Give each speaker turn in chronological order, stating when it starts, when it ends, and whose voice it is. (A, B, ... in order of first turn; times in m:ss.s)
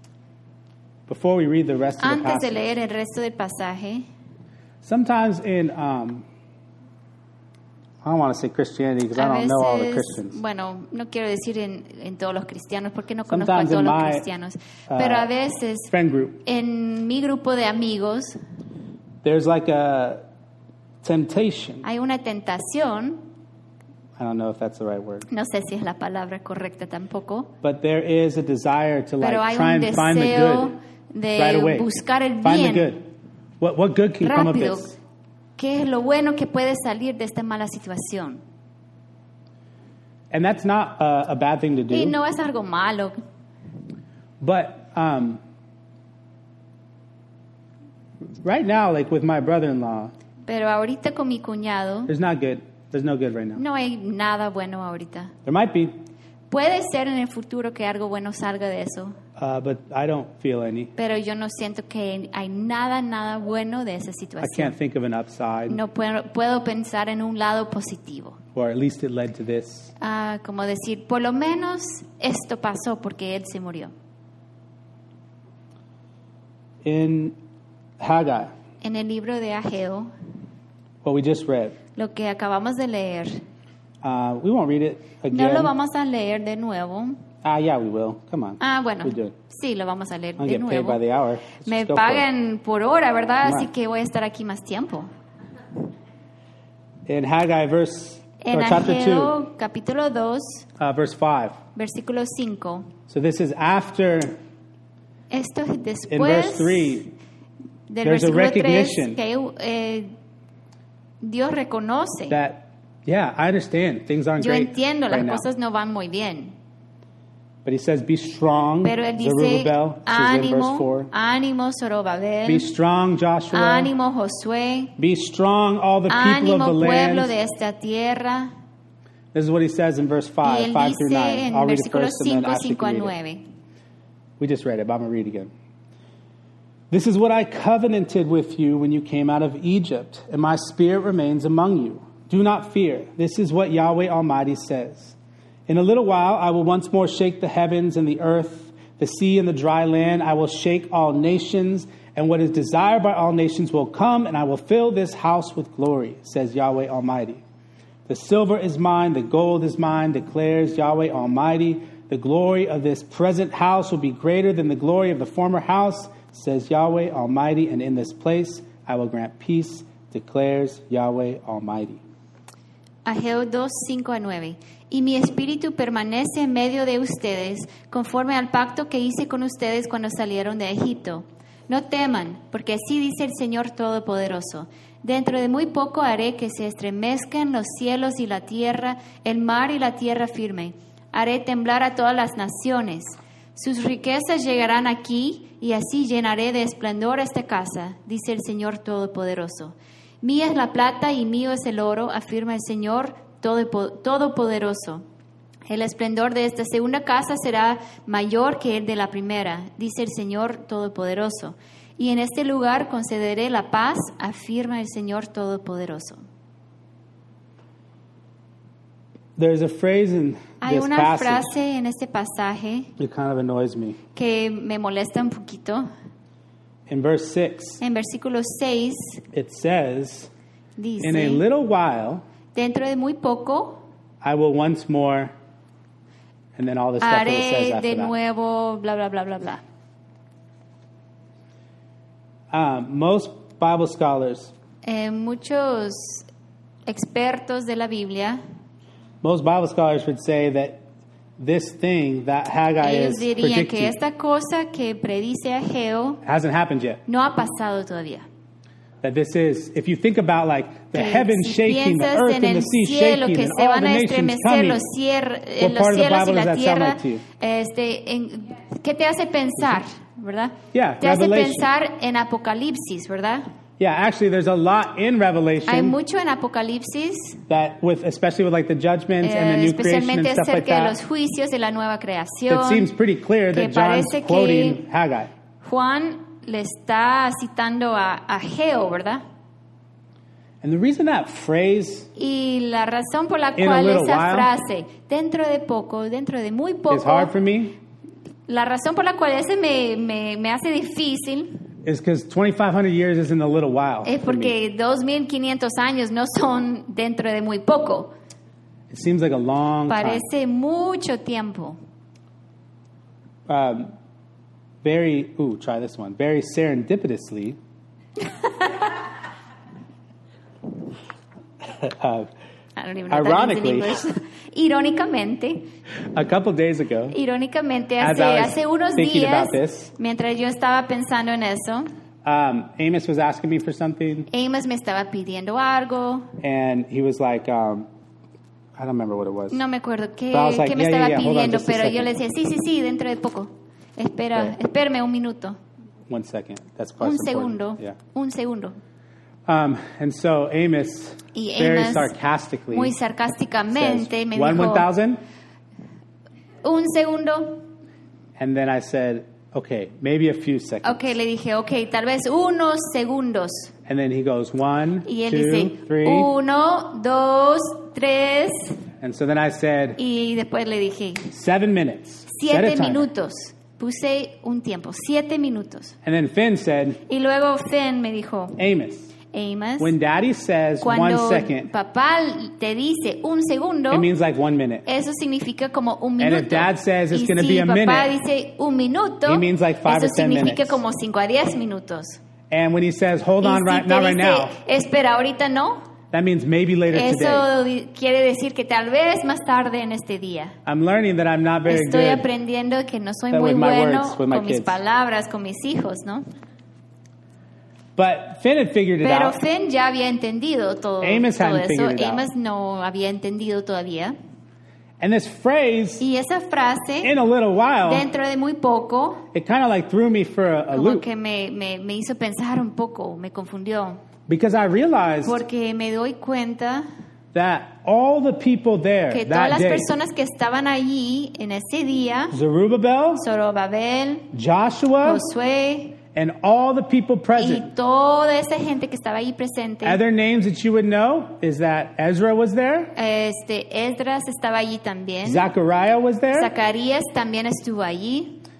0:01.1-0:02.6 A
0:02.0-0:04.0 B
0:04.8-0:06.2 A
0:08.0-0:10.4 A
0:09.1-0:15.9 B
0:13.3-0:14.2 A
0:14.9-0:15.3 A
0:15.9-0:16.4 A
0:16.4-0:18.4 B
0:19.2-0:20.2 A
0:21.0-0:21.8 A
0:21.8-0:23.2 B
0:24.2-0:25.3 A
0:25.3-0:27.5 B
0:27.6-0:30.7 A
0:29.2-0:32.9 B
0:31.4-0:31.9 A
0:32.4-0:33.0 A
0:33.6-0:34.9 A
0:34.2-0:34.9 B
0:35.6-0:38.4 B
0:40.3-0:42.2 A
0:41.9-0:43.2 B
0:44.4-0:45.4 A
0:48.4-0:50.1 A
0:50.5-0:52.1 B
0:52.1-0:53.6 A
0:53.6-0:55.3 B
0:55.4-0:55.9 A
0:56.5-0:59.2 B
0:59.4-1:00.9 A
1:01.0-1:04.7 B
1:04.4-1:05.8 A
1:05.7-1:08.4 B
1:08.5-1:09.9 A
1:10.0-1:13.9 B
1:16.8-1:17.4 A
1:18.0-1:18.5 A
1:18.8-1:20.1 B
1:21.0-1:21.8 A
1:22.0-1:23.4 B
1:24.0-1:25.7 A
1:25.3-1:27.2 B
1:27.4-1:29.3 A
1:28.6-1:31.0 B
1:30.4-1:32.2 A
1:31.6-1:35.1 B
1:37.1-1:39.4 A
1:38.4-1:40.6 B
1:40.8-1:41.6 A
1:41.7-1:42.9 B
1:43.1-1:44.4 A
1:45.3-1:47.0 B
1:46.1-1:47.1 A
1:47.9-1:50.1 B
1:48.0-1:49.2 A
1:51.2-1:52.4 B
1:52.3-1:55.4 A
1:54.4-1:56.5 B
1:57.6-2:01.1 A
1:58.8-2:02.6 B
2:02.4-2:03.9 A
2:03.5-2:05.0 B
2:05.0-2:07.3 A
2:06.1-2:08.5 B
2:09.3-2:13.1 A
2:10.4-2:13.4 B
2:14.4-2:15.5 A
2:16.9-2:25.2 A
2:25.7-2:37.4 A
2:38.1-2:52.0 A
2:53.0-3:25.0 B
3:25.7-3:36.2 B
3:39.4-3:41.5 A
3:40.6-3:42.9 B
3:43.0-3:44.0 A
3:44.1-3:45.9 B
3:46.9-3:47.8 A
3:47.8-3:49.2 B
3:49.3-3:50.3 A
3:50.8-3:51.4 B
3:51.0-3:52.2 A
3:52.5-3:53.8 B
3:54.2-3:55.3 A
3:56.6-3:58.1 A
3:57.0-3:59.6 B
4:02.5-4:04.5 A
4:04.8-4:06.3 B
4:06.9-4:08.4 B
4:09.2-4:10.8 A
4:11.4-4:14.0 A
4:12.8-4:16.2 B
4:16.2-4:17.0 A
4:17.1-4:18.3 B
4:19.0-4:24.8 A
4:20.9-4:33.4 B
4:25.6-4:27.2 A
4:30.7-4:31.7 A
4:33.8-4:36.0 A
4:35.7-4:37.4 B
4:37.5-4:41.0 A
4:39.2-4:42.9 B
4:42.5-4:45.3 A
4:43.5-4:44.8 B
4:45.6-4:49.2 B
4:50.6-4:52.1 A
4:52.2-4:57.3 B
4:53.6-4:54.5 A
4:56.9-4:57.8 A
4:58.5-5:01.6 B
5:01.8-5:04.5 A
5:04.0-5:08.1 B
5:08.9-5:10.2 A
5:09.9-5:11.8 B
5:13.5-5:13.9 A
5:14.8-5:17.6 A
5:21.8-5:22.3 A
5:22.8-5:25.7 B
5:23.1-5:24.0 A
5:26.1-5:27.2 A
5:27.1-5:31.9 B
5:28.0-5:29.9 A
5:32.2-5:34.3 A
5:34.3-5:36.3 B
5:36.4-5:37.9 A
5:38.8-5:39.6 A
5:39.5-5:45.6 B
5:40.3-5:42.1 A
5:46.1-5:48.0 A
5:47.0-5:48.8 B
5:49.5-5:52.9 A
5:51.3-5:52.1 B
5:52.7-5:54.9 B
5:53.7-5:55.2 A
5:56.6-5:57.6 B
5:58.4-6:01.0 A
6:00.8-6:03.7 B
6:03.8-6:06.3 A
6:05.0-6:08.8 B
6:09.0-6:10.0 A
6:10.0-6:11.3 B
6:11.3-6:13.1 A
6:12.3-6:16.0 B
6:16.0-6:17.0 A
6:17.1-6:18.6 B
6:18.6-6:19.1 A
6:19.3-6:19.9 B
6:19.8-6:21.7 A
6:20.8-6:24.1 B
6:23.9-6:24.8 A
6:24.8-6:32.2 B
6:26.2-6:28.1 A
6:29.2-6:30.8 A
6:32.5-6:34.6 A
6:33.4-6:35.8 B
6:36.1-6:37.5 A
6:36.9-6:40.6 B
6:40.6-6:42.2 A
6:41.6-6:46.2 B
6:43.3-6:44.8 A
6:48.0-6:49.4 A
6:49.0-6:54.1 B
6:51.0-6:52.2 A
6:55.0-6:56.0 A
6:56.0-6:57.1 B
6:57.0-6:58.0 A
6:57.8-6:59.3 B
6:59.3-7:01.0 A
7:00.7-7:04.0 B
7:04.3-7:05.4 A
7:05.2-7:06.8 B
7:07.3-7:09.9 A
7:09.1-7:12.4 B
7:12.3-7:13.2 A
7:13.2-7:14.3 B
7:14.3-7:15.2 A
7:15.0-7:16.0 B
7:16.1-7:17.7 A
7:17.4-7:20.0 B
7:19.8-7:22.9 A
7:23.0-7:25.4 B
7:25.2-7:26.5 A
7:26.3-7:28.4 B